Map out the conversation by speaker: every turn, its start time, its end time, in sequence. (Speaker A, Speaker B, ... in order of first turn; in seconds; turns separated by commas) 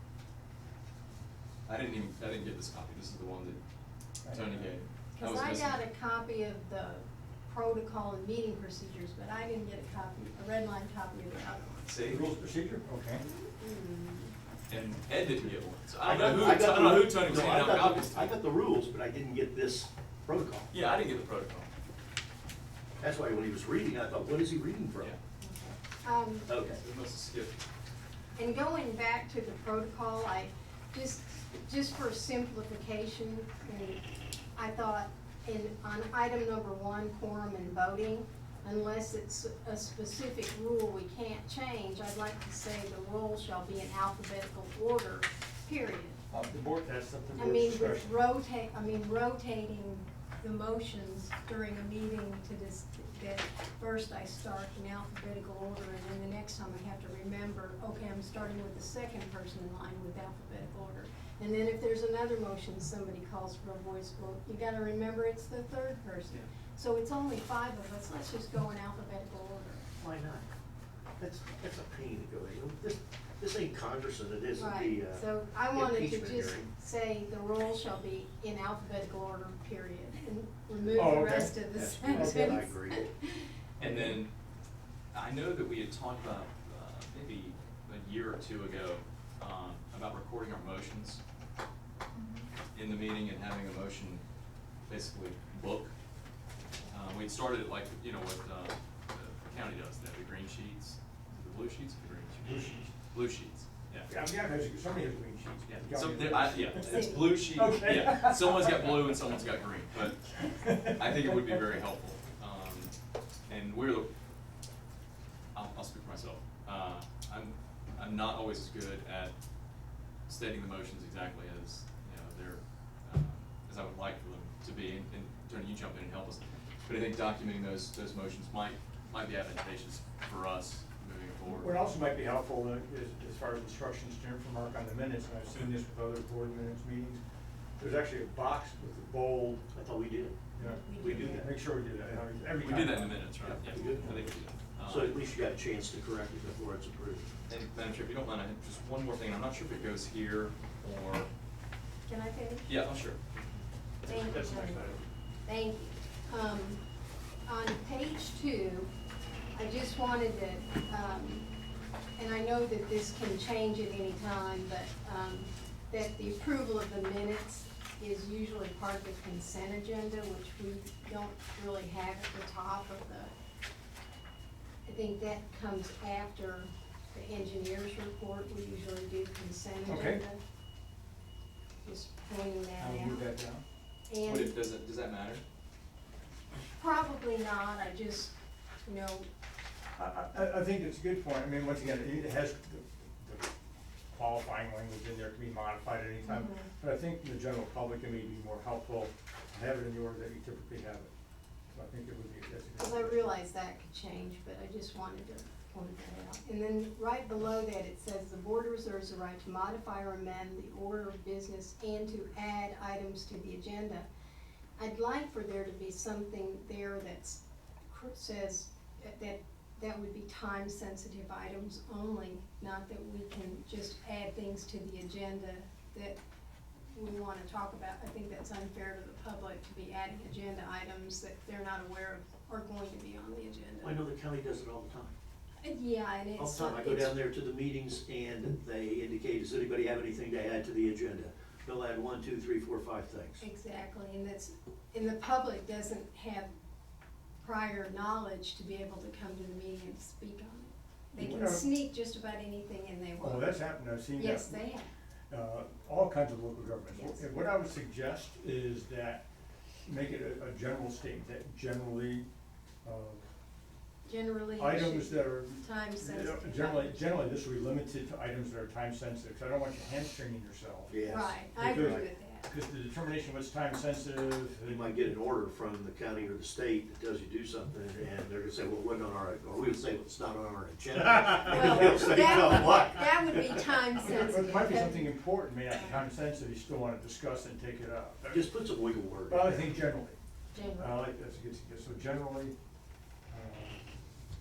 Speaker A: 1.7-3.6, Speaker B: 4.2-4.7, Speaker A: 4.3-5.8, Speaker C: 5.2-11.9, Speaker A: 11.9-12.2, Speaker B: 12.1-13.2, Speaker C: 13.2-14.3, Speaker A: 14.7-18.4, Speaker D: 16.0-20.7, Speaker A: 20.7-21.7, Speaker D: 23.0-25.1, Speaker C: 25.4-26.5, Speaker D: 26.5-26.8, Speaker A: 26.6-27.6, Speaker C: 28.4-34.0, Speaker C: 34.5-46.2, Speaker B: 46.3-48.1, Speaker C: 47.4-69.8, Speaker D: 70.0-70.5, Speaker D: 71.2-76.7, Speaker C: 74.6-83.5, Speaker B: 80.9-82.6, Speaker D: 81.7-83.1, Speaker A: 83.8-84.3, Speaker B: 83.8-84.2, Speaker A: 85.1-91.2, Speaker C: 92.1-92.5, Speaker A: 92.7-94.2, Speaker A: 94.9-96.0, Speaker A: 96.9-104.1, Speaker B: 102.4-102.9, Speaker B: 104.1-109.4, Speaker A: 105.7-110.3, Speaker C: 106.8-107.5, Speaker B: 110.3-111.8, Speaker A: 110.8-112.9, Speaker A: 113.5-114.1, Speaker A: 115.5-119.3, Speaker A: 120.3-131.8, Speaker B: 131.6-137.2, Speaker B: 137.8-139.7, Speaker D: 139.7-140.4, Speaker B: 140.6-144.2, Speaker C: 140.6-141.5, Speaker D: 141.0-141.5, Speaker A: 142.6-145.2, Speaker D: 143.4-144.3, Speaker D: 144.9-147.3, Speaker A: 147.5-151.3, Speaker C: 152.1-152.7, Speaker A: 152.7-153.2, Speaker B: 154.0-155.1, Speaker C: 154.1-154.9, Speaker C: 155.5-156.8, Speaker C: 157.5-158.9, Speaker C: 159.6-161.5, Speaker C: 162.2-173.3, Speaker C: 174.8-180.4, Speaker B: 179.8-180.2, Speaker C: 181.8-183.3, Speaker B: 182.8-183.6, Speaker C: 184.1-184.6, Speaker A: 184.2-185.4, Speaker C: 186.8-188.3, Speaker C: 188.8-189.3, Speaker B: 190.0-193.5, Speaker B: 194.1-201.1, Speaker C: 196.2-196.7, Speaker B: 201.7-203.3, Speaker C: 202.8-214.1, Speaker C: 214.8-226.2, Speaker C: 226.9-234.0, Speaker D: 233.8-235.1, Speaker C: 235.6-237.2, Speaker D: 236.4-243.4, Speaker C: 243.4-246.5, Speaker C: 247.4-253.6, Speaker B: 251.2-251.7, Speaker B: 253.2-254.6, Speaker C: 254.2-254.9, Speaker B: 255.3-259.2, Speaker C: 256.9-257.2, Speaker B: 259.9-262.2, Speaker B: 262.8-263.3, Speaker C: 264.1-267.0, Speaker B: 264.6-271.0, Speaker D: 270.9-272.0, Speaker C: 271.1-272.5, Speaker B: 271.5-275.1, Speaker D: 274.7-284.1, Speaker B: 281.1-282.1, Speaker C: 281.4-285.2, Speaker B: 284.0-288.5, Speaker D: 288.3-289.7, Speaker B: 289.3-290.2, Speaker C: 290.5-291.0, Speaker B: 290.8-292.6, Speaker B: 293.3-293.8